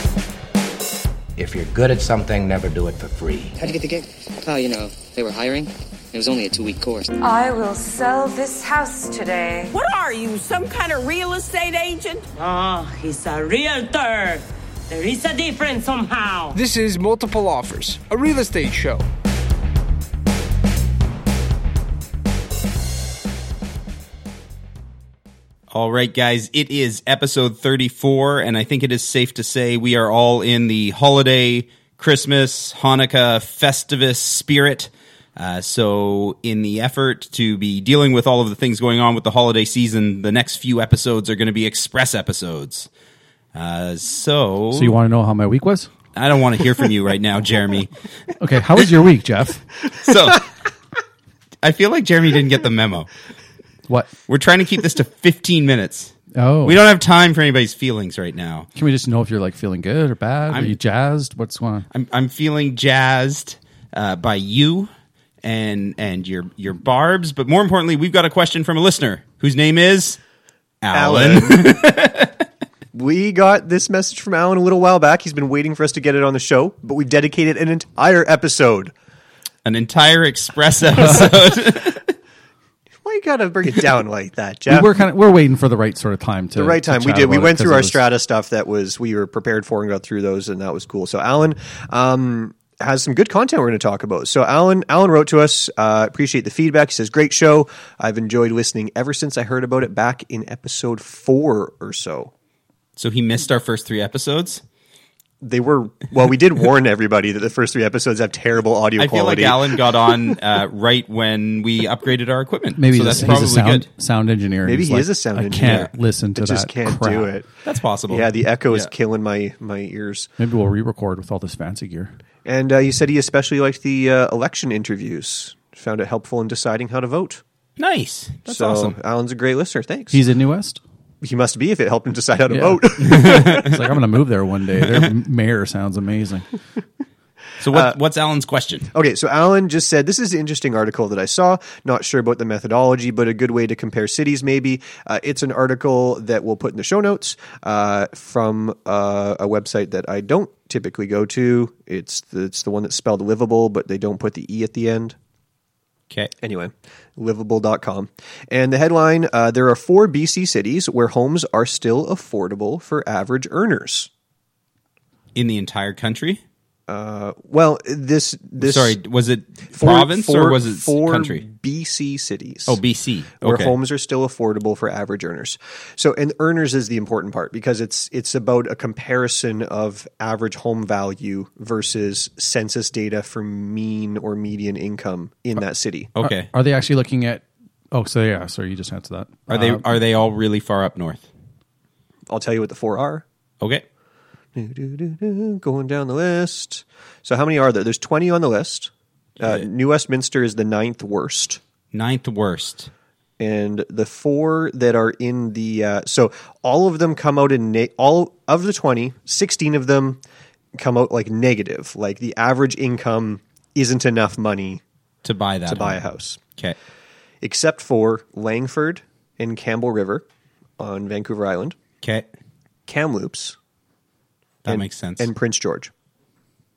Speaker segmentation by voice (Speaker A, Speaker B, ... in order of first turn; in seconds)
Speaker A: 1.4-3.6
Speaker B: 3.6-7.1
Speaker C: 7.2-9.7
Speaker D: 9.7-12.3, 13.3-14.4
Speaker E: 12.4-14.4, 14.9-16.6
Speaker F: 16.6-19.1
Speaker G: 25.7-42.9, 43.5-45.0, 46.1-48.0, 50.0-50.5, 51.6-53.1, 54.3-58.7, 60.5-60.8, 61.9-64.9, 65.4-70.2, 70.8-72.3, 79.7-82.1, 103.0-104.6, 109.0-113.9, 115.7-115.9, 117.7-118.9, 127.8-129.0, 133.1-133.7, 137.6-138.9, 165.3-166.4, 168.6-171.5, 172.7-173.8, 186.2-186.5, 189.5-191.3, 201.9-202.9, 215.2-216.0, 222.0-222.3, 224.7-225.3
Speaker H: 44.7-45.9, 48.4-49.6, 53.9-54.1, 56.4-56.8, 58.8-61.9, 84.7-88.1, 112.8-117.4, 120.4-122.2, 130.1-130.8, 132.5-136.5, 186.2-189.9
Speaker I: 70.9-71.7, 72.9-78.9, 83.0-85.0, 86.6-102.3, 105.4-109.8, 114.6-120.3, 122.5-127.4, 128.5-130.2, 131.2-133.8, 138.9-155.2, 156.4-164.1, 166.9-169.0, 169.7-172.8, 173.4-186.1, 192.3-193.2, 194.6-201.6, 203.4-210.2, 210.8-214.8, 215.7-216.4, 217.4-220.2, 220.8-221.8, 222.9-223.6, 224.7-225.9